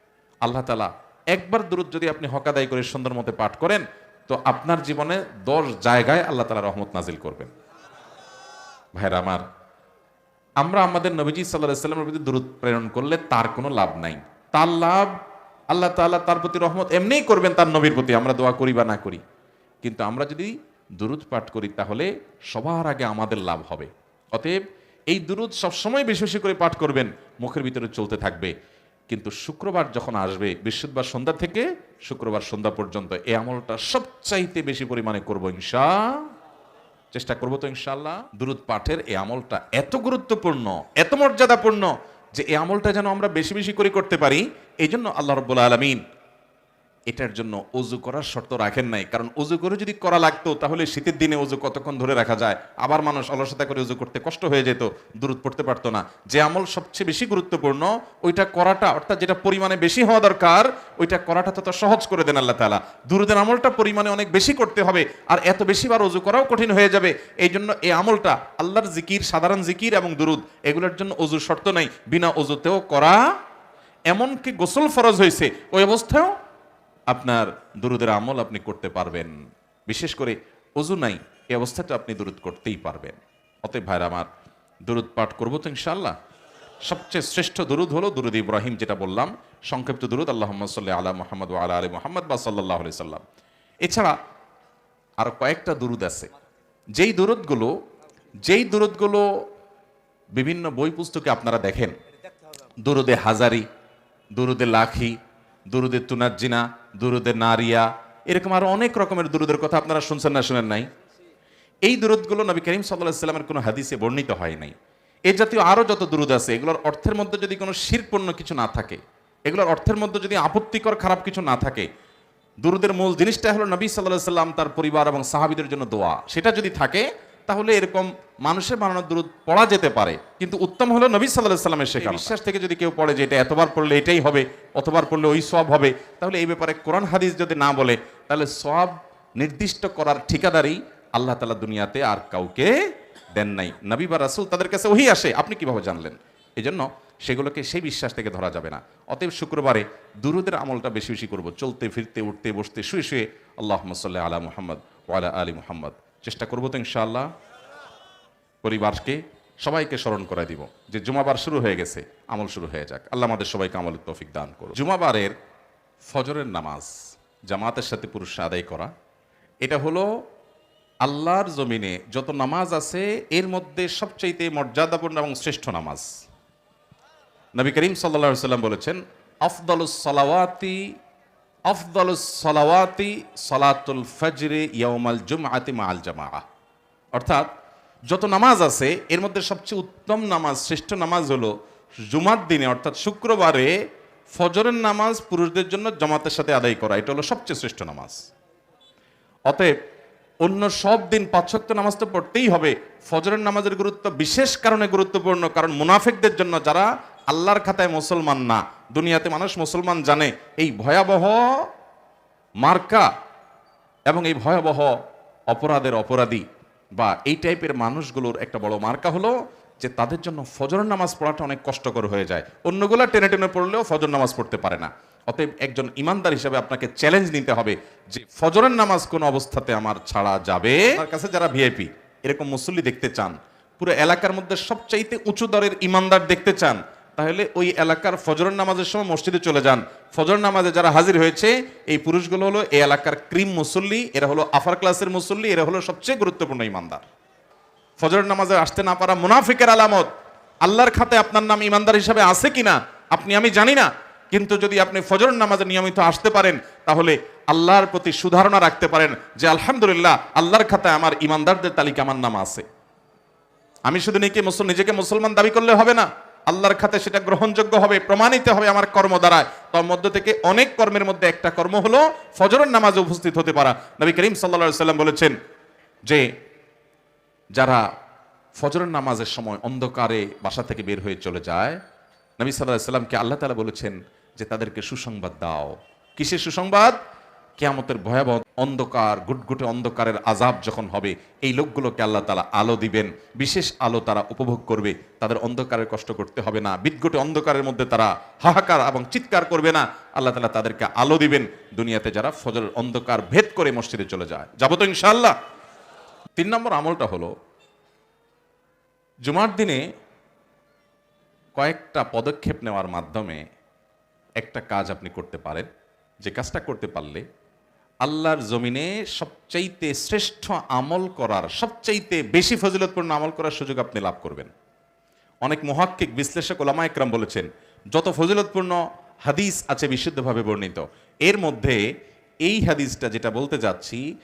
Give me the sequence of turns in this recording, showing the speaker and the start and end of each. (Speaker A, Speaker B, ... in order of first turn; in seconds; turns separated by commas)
Speaker A: 0.4-7.5, Speaker A: 8.9-9.4, Speaker A: 10.6-15.2, Speaker A: 15.7-19.2, Speaker A: 19.8-28.5, Speaker A: 29.1-36.3, Speaker A: 37.1-46.0, Speaker A: 47.1-73.2, Speaker A: 74.1-76.3, Speaker A: 77.1-79.3, Speaker A: 79.9-84.3, Speaker A: 84.8-86.1, Speaker A: 86.8-93.2, Speaker A: 93.8-94.1, Speaker A: 95.2-96.3, Speaker A: 97.0-97.7, Speaker A: 98.4-99.4, Speaker A: 100.3-102.0, Speaker A: 102.8-103.7, Speaker A: 104.3-105.2, Speaker A: 105.7-110.9, Speaker A: 111.8-114.7, Speaker A: 115.3-121.9, Speaker A: 122.6-142.8, Speaker A: 143.3-157.3, Speaker A: 158.6-165.3, Speaker A: 166.0-166.9, Speaker A: 167.5-168.9, Speaker A: 169.6-170.1, Speaker A: 171.0-176.1, Speaker A: 177.6-180.9, Speaker A: 181.7-186.4, Speaker A: 187.1-187.5, Speaker A: 188.1-191.5, Speaker A: 192.1-193.7, Speaker A: 194.3-198.2, Speaker A: 199.5-199.7, Speaker A: 200.4-211.5, Speaker A: 212.6-213.1, Speaker A: 214.1-215.0, Speaker A: 215.5-216.4, Speaker A: 217.0-247.1, Speaker A: 248.0-250.1, Speaker A: 250.6-262.6, Speaker A: 263.9-275.4, Speaker A: 276.1-276.3, Speaker A: 277.5-277.9, Speaker A: 278.6-281.8, Speaker A: 282.4-287.0, Speaker A: 287.6-305.3, Speaker A: 306.4-307.3, Speaker A: 309.2-309.8, Speaker A: 311.6-313.4, Speaker A: 314.4-315.7, Speaker A: 316.2-317.2, Speaker A: 318.0-324.5, Speaker A: 325.4-331.8, Speaker A: 332.4-334.0